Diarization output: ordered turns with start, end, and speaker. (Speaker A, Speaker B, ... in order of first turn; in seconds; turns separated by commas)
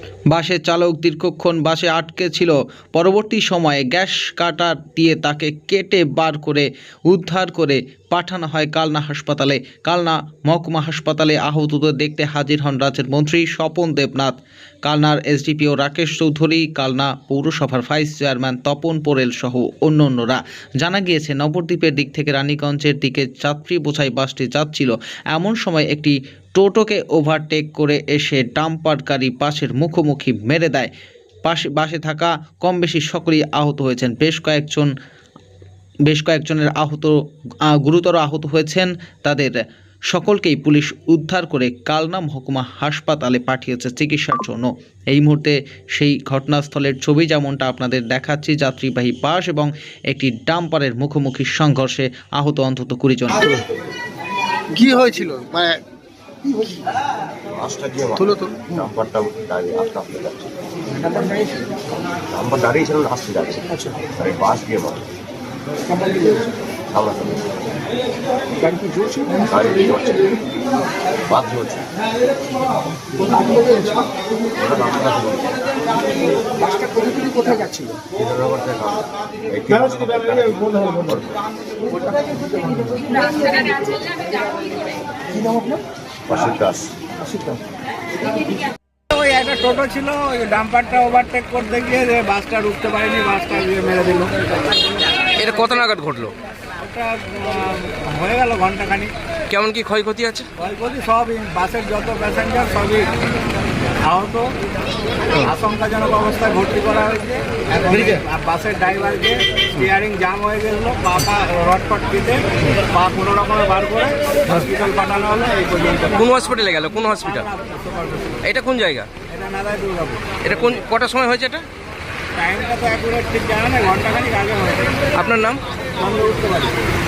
Speaker A: 0.3-30.9, Speaker A: 31.4-34.9, Speaker A: 36.1-39.6, Speaker A: 40.1-53.5, Speaker B: 54.7-55.8, Speaker B: 56.5-56.7, Speaker C: 57.5-60.5, Speaker B: 58.2-58.7, Speaker C: 62.3-65.1, Speaker C: 66.9-67.4, Speaker B: 68.6-69.5, Speaker C: 69.4-70.5, Speaker C: 71.3-71.9, Speaker C: 74.6-75.7, Speaker B: 76.6-78.0, Speaker C: 78.1-81.4, Speaker B: 82.6-83.8, Speaker B: 85.4-85.8, Speaker C: 86.3-86.9, Speaker D: 89.1-94.5, Speaker E: 95.4-96.3, Speaker D: 96.8-99.1, Speaker E: 99.5-100.5, Speaker D: 100.6-103.2, Speaker D: 104.0-104.5, Speaker D: 105.4-116.2, Speaker E: 107.9-108.2, Speaker E: 116.1-117.5, Speaker D: 117.2-118.5, Speaker E: 118.4-119.1, Speaker D: 119.3-120.4, Speaker E: 120.4-121.7, Speaker D: 122.3-125.0, Speaker E: 125.2-125.6, Speaker D: 126.0-126.8